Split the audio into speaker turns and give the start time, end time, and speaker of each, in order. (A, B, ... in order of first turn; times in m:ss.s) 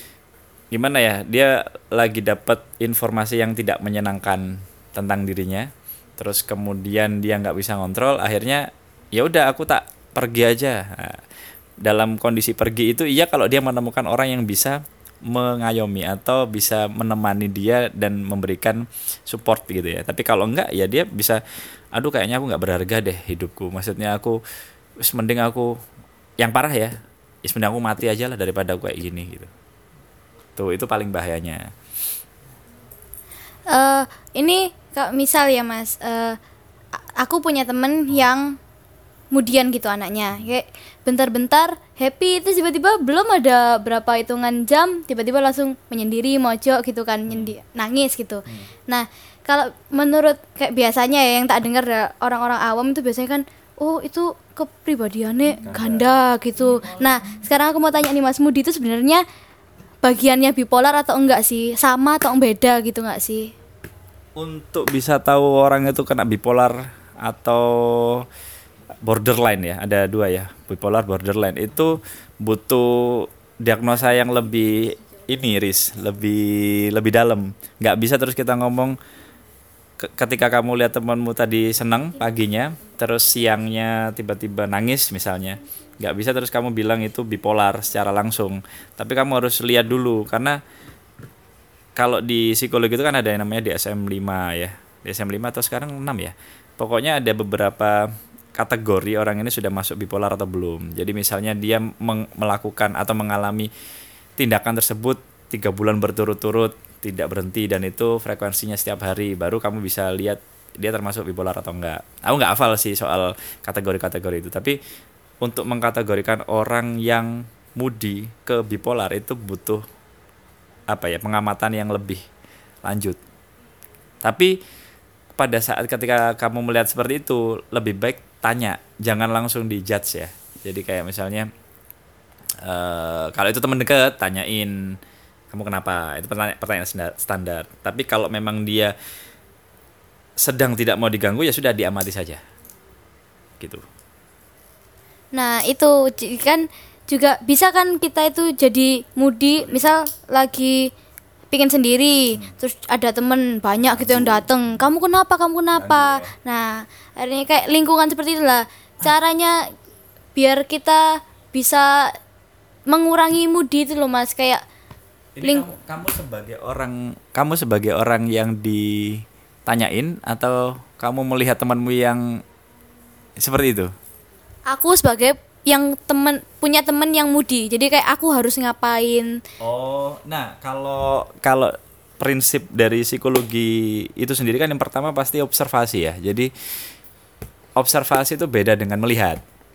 0:00.7-0:11.2 A
0:11.8-0:21.4 A
0:21.9-0:24.4 A
0:25.0-0:25.7 A
0:26.4-0:26.9 A
0:27.4-0:29.5 A
0:30.6-0:31.6 A
0:33.7-0:36.4 B
0:37.2-0:38.6 B
0:39.3-0:59.2 B
0:55.6-0:56.2 A
0:56.7-0:57.0 A
1:00.0-1:03.5 B
1:04.4-1:08.2 A
1:09.0-1:19.0 A
1:20.0-1:30.6 A
1:32.0-1:43.7 A
1:44.4-1:54.8 A
1:55.4-1:59.8 A
2:00.9-2:02.2 A
2:02.8-2:03.2 A
2:04.2-2:04.6 A
2:05.3-2:11.5 A
2:12.6-2:15.0 A
2:15.5-2:18.9 A
2:20.4-2:22.4 A
2:25.3-2:30.9 B
2:31.5-2:39.6 B
2:34.0-2:34.4 A
2:35.7-2:36.3 A
2:40.3-2:42.2 B
2:42.9-2:44.6 B
2:45.4-2:52.2 A
2:53.4-2:53.9 A
2:54.7-2:59.4 B
2:59.6-3:06.5 A
3:07.8-3:09.4 A